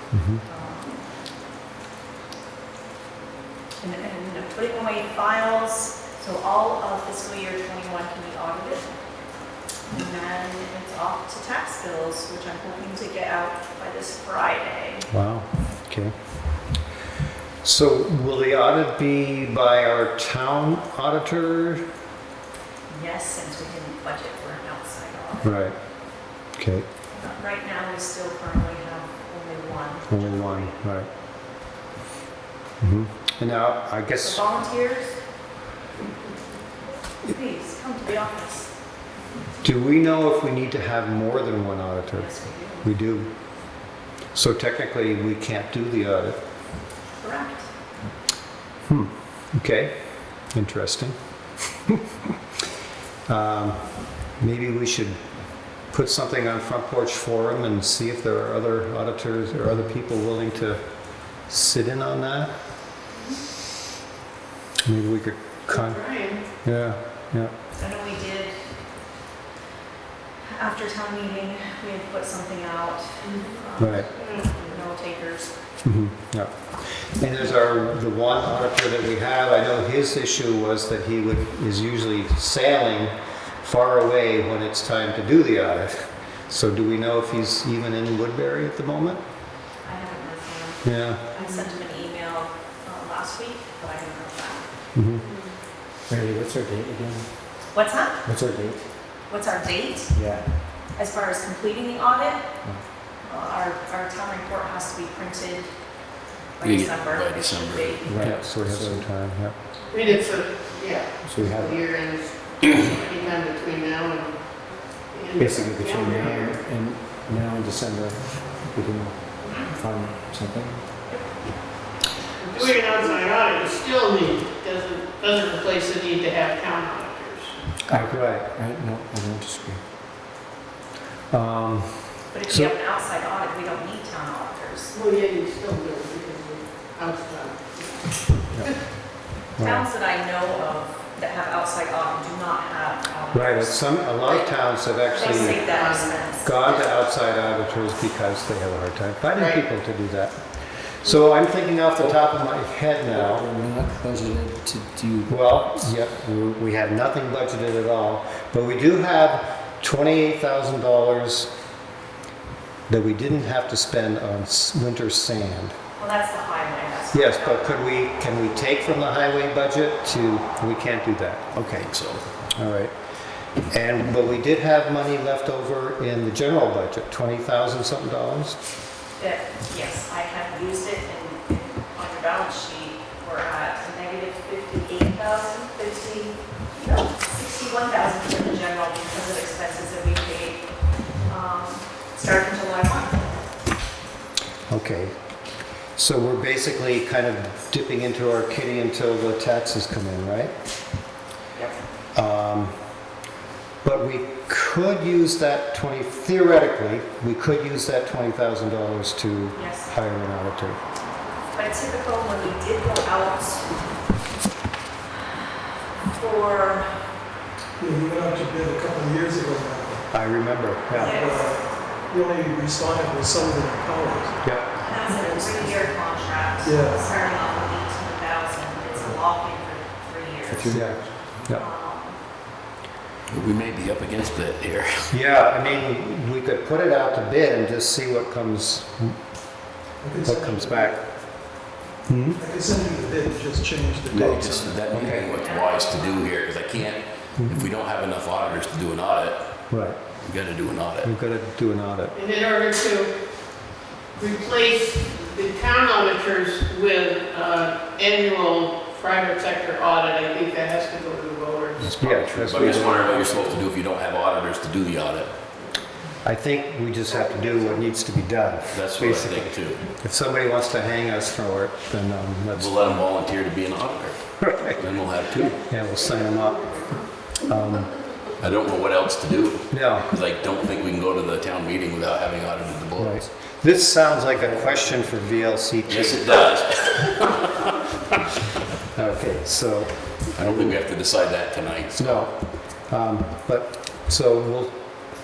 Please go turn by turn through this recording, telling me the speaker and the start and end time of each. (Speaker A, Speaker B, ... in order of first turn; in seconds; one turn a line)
Speaker A: 0.1-0.4
Speaker B: 0.5-1.0
Speaker B: 3.8-8.9
Speaker B: 9.9-15.1
Speaker A: 15.1-16.1
Speaker A: 17.6-21.8
Speaker B: 22.9-25.6
Speaker A: 25.4-25.7
Speaker A: 26.6-26.9
Speaker B: 27.1-30.8
Speaker A: 30.1-31.1
Speaker A: 32.8-34.4
Speaker B: 34.2-35.2
Speaker B: 37.2-38.7
Speaker A: 39.6-42.3
Speaker B: 42.1-42.9
Speaker A: 42.8-43.3
Speaker A: 44.3-46.4
Speaker B: 47.2-47.7
Speaker A: 48.9-49.9
Speaker A: 50.5-51.1
Speaker A: 53.3-53.8
Speaker A: 54.4-55.2
Speaker A: 55.9-60.8
Speaker A: 61.4-62.5
Speaker A: 64.8-66.0
Speaker C: 65.7-66.4
Speaker A: 66.6-67.5
Speaker B: 67.8-68.6
Speaker B: 70.5-75.5
Speaker C: 73.2-73.6
Speaker A: 73.8-74.1
Speaker C: 74.2-74.8
Speaker A: 75.8-85.9
Speaker A: 86.5-89.2
Speaker B: 89.8-94.6
Speaker A: 90.8-91.2
Speaker A: 94.9-95.2
Speaker C: 95.3-95.5
Speaker D: 96.1-97.3
Speaker B: 97.7-98.2
Speaker D: 98.2-98.8
Speaker B: 99.3-100.1
Speaker D: 100.1-100.4
Speaker B: 100.9-102.4
Speaker B: 103.3-105.7
Speaker B: 106.6-108.1
Speaker E: 106.6-108.4
Speaker D: 108.0-109.1
Speaker A: 108.2-109.5
Speaker C: 109.9-114.4
Speaker D: 111.2-111.8
Speaker C: 115.1-116.6
Speaker D: 115.4-120.8
Speaker C: 122.4-127.6
Speaker A: 127.9-128.5
Speaker D: 127.9-129.8
Speaker A: 131.3-132.7
Speaker B: 132.3-134.9
Speaker C: 134.9-138.7
Speaker A: 139.6-139.8
Speaker B: 139.6-144.1
Speaker A: 143.3-145.6
Speaker B: 145.1-146.5
Speaker C: 145.2-146.2
Speaker A: 146.4-150.4
Speaker A: 151.0-153.4
Speaker D: 153.1-155.3
Speaker A: 155.3-161.5
Speaker A: 162.9-165.7
Speaker B: 166.0-167.7
Speaker A: 167.1-171.9
Speaker E: 171.6-172.3
Speaker A: 172.6-172.9
Speaker A: 173.7-178.6
Speaker B: 179.2-190.7
Speaker B: 191.3-193.3
Speaker A: 194.7-195.1
Speaker A: 195.9-200.5
Speaker A: 202.1-202.7
Speaker A: 203.8-210.8
Speaker B: 209.5-209.9
Speaker B: 211.5-213.7
Speaker B: 216.1-217.0
Speaker F: 217.8-220.1
Speaker A: 220.1-221.2
Speaker B: 220.9-221.6
Speaker F: 220.9-224.5
Speaker A: 224.4-224.7
Speaker B: 224.8-230.8
Speaker F: 225.1-225.6
Speaker F: 226.6-227.0
Speaker F: 228.9-229.2
Speaker D: 230.5-231.5
Speaker A: 230.7-231.6
Speaker B: 231.5-232.2
Speaker E: 233.3-235.1
Speaker A: 235.1-239.1
Speaker F: 240.0-241.0
Speaker A: 240.2-241.0
Speaker A: 242.1-242.4
Speaker F: 242.3-244.8
Speaker E: 244.1-249.4
Speaker A: 244.1-245.2
Speaker D: 244.4-245.2
Speaker B: 245.2-246.3
Speaker A: 247.4-247.7
Speaker A: 249.7-250.0
Speaker E: 250.2-251.1
Speaker A: 251.0-252.1
Speaker C: 252.1-253.1
Speaker C: 254.2-261.9
Speaker A: 261.8-263.6
Speaker E: 261.9-265.3
Speaker C: 262.5-263.0
Speaker A: 266.2-273.0
Speaker C: 267.1-267.8
Speaker E: 268.7-269.8
Speaker E: 272.6-275.6
Speaker A: 274.4-274.8
Speaker C: 275.4-277.0
Speaker A: 275.7-276.7
Speaker A: 277.4-277.9
Speaker E: 278.4-283.2
Speaker A: 279.7-280.1
Speaker A: 283.0-286.3
Speaker E: 285.9-287.7
Speaker A: 288.9-290.7
Speaker E: 290.3-292.2
Speaker A: 291.9-294.8